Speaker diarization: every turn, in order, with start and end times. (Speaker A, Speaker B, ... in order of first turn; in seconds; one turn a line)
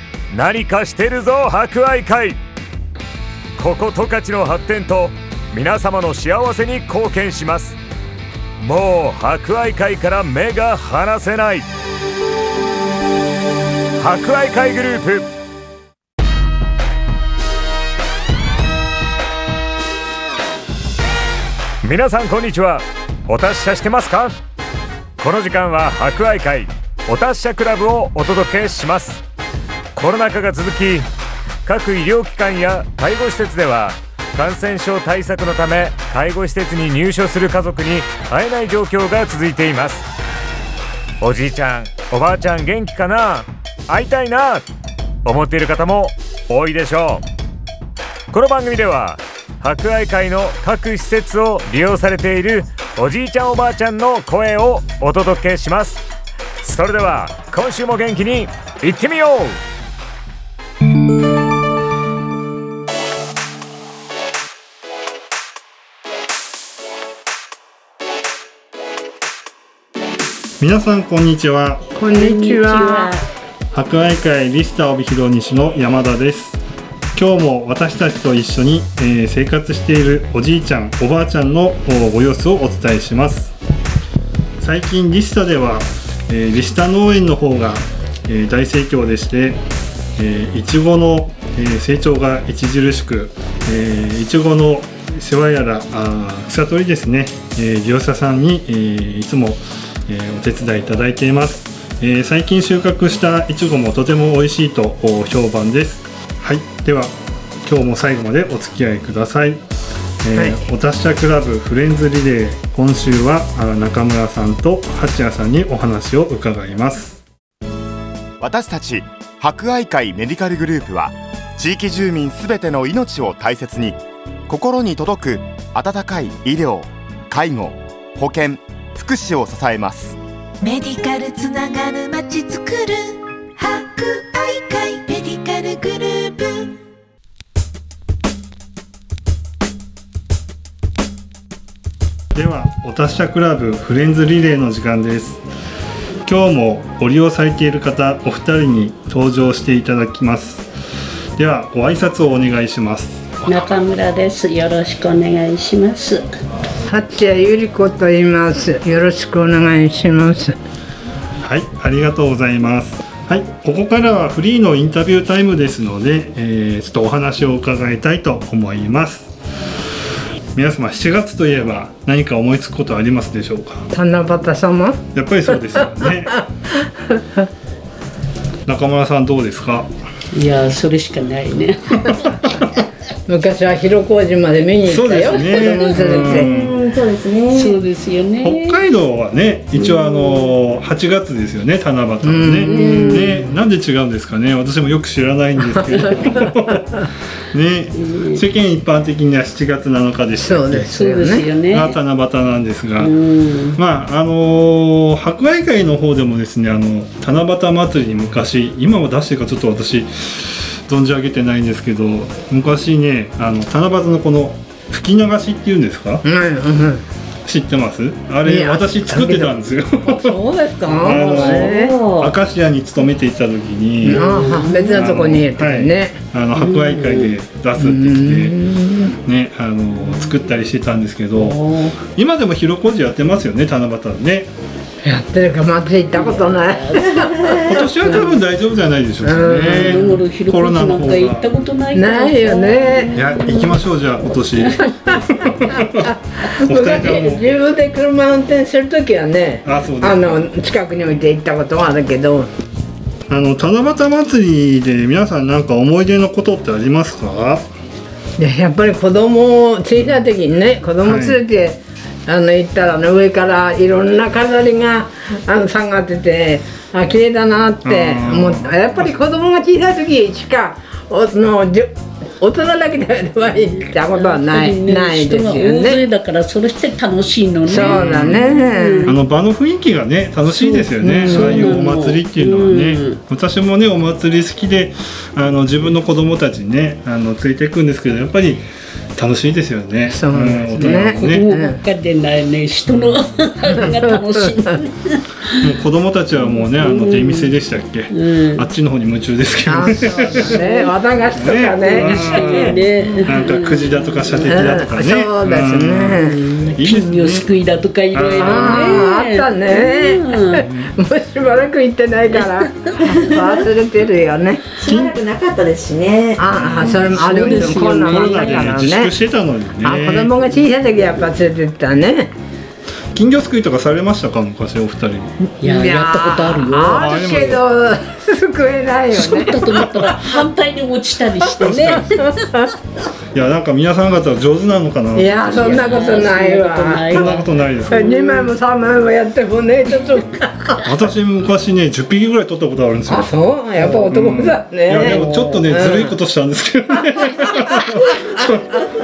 Speaker A: 0.3-2.4
Speaker A: 3.5-7.8
Speaker A: 8.6-11.7
Speaker A: 14.0-15.3
Speaker A: 21.8-24.4
Speaker A: 25.2-29.2
Speaker A: 29.9-31.1
Speaker A: 31.6-40.1
Speaker A: 41.2-44.6
Speaker A: 45.2-47.2
Speaker A: 48.3-56.0
Speaker A: 56.6-59.6
Speaker B: 70.6-71.9
Speaker C: 72.0-73.1
Speaker D: 72.1-73.2
Speaker B: 73.7-76.6
Speaker B: 77.1-83.5
Speaker B: 84.6-89.6
Speaker B: 90.2-109.6
Speaker B: 110.2-117.2
Speaker E: 118.4-130.2
Speaker F: 130.6-136.7
Speaker B: 142.3-145.4
Speaker B: 146.2-150.7
Speaker B: 151.4-153.8
Speaker D: 153.4-156.2
Speaker C: 156.9-160.6
Speaker B: 161.4-169.3
Speaker B: 170.5-173.9
Speaker C: 173.9-175.0
Speaker B: 175.1-176.4
Speaker B: 178.7-179.9
Speaker D: 180.3-182.2
Speaker B: 182.1-182.7
Speaker C: 183.3-186.5
Speaker B: 184.8-186.8
Speaker G: 186.4-187.8
Speaker D: 187.5-188.8
Speaker B: 188.4-196.9
Speaker D: 189.8-190.5
Speaker C: 192.2-193.4
Speaker D: 192.6-193.4
Speaker B: 197.5-200.9
Speaker D: 197.9-198.4
Speaker C: 200.4-201.5
Speaker D: 200.8-202.0
Speaker B: 201.7-203.1
Speaker D: 203.0-203.8
Speaker B: 203.7-216.2
Speaker C: 216.2-217.0
Speaker B: 217.4-220.3
Speaker C: 218.4-222.0
Speaker B: 221.0-224.3
Speaker D: 221.1-222.3
Speaker D: 224.0-225.1
Speaker C: 224.1-226.2
Speaker B: 224.9-234.5
Speaker D: 226.6-227.3
Speaker C: 227.8-229.1
Speaker D: 231.3-232.0
Speaker C: 235.0-238.3
Speaker D: 236.1-238.3
Speaker B: 237.6-241.5
Speaker C: 239.2-240.0
Speaker D: 239.6-243.8
Speaker C: 241.9-243.2
Speaker B: 243.1-246.1
Speaker C: 245.7-252.5
Speaker B: 246.6-247.5
Speaker B: 249.6-250.5
Speaker B: 253.3-257.6
Speaker C: 258.4-276.0
Speaker B: 261.0-261.4
Speaker B: 267.8-269.1
Speaker D: 273.6-279.2
Speaker C: 277.7-279.1
Speaker B: 277.7-278.5
Speaker B: 279.0-288.6
Speaker D: 280.5-283.2
Speaker C: 281.0-281.8
Speaker B: 289.1-291.4
Speaker C: 290.1-291.8
Speaker D: 290.8-295.6
Speaker B: 292.9-293.1
Speaker C: 293.8-294.6
Speaker B: 295.6-300.6
Speaker D: 296.4-297.5
Speaker D: 298.1-298.7
Speaker C: 299.6-302.8
Speaker D: 300.5-300.8
Speaker B: 301.3-306.2
Speaker D: 301.8-304.6
Speaker C: 304.4-306.4
Speaker D: 306.2-310.6
Speaker B: 306.7-307.5
Speaker B: 308.1-309.1
Speaker C: 308.4-314.7
Speaker B: 310.6-310.9
Speaker G: 314.8-316.5
Speaker B: 314.8-315.2
Speaker C: 316.4-319.1
Speaker B: 316.5-320.4
Speaker D: 316.9-318.8
Speaker C: 319.8-322.3
Speaker B: 323.1-325.3
Speaker D: 325.6-327.3
Speaker C: 325.6-330.4
Speaker B: 326.9-327.6
Speaker D: 329.1-332.2
Speaker B: 331.6-332.1
Speaker B: 333.3-336.2
Speaker C: 335.1-337.3
Speaker D: 335.5-337.5
Speaker B: 337.1-338.1
Speaker C: 337.9-340.8
Speaker B: 340.8-343.3
Speaker C: 343.1-346.1
Speaker D: 343.8-344.1
Speaker B: 344.1-348.9
Speaker D: 345.1-345.6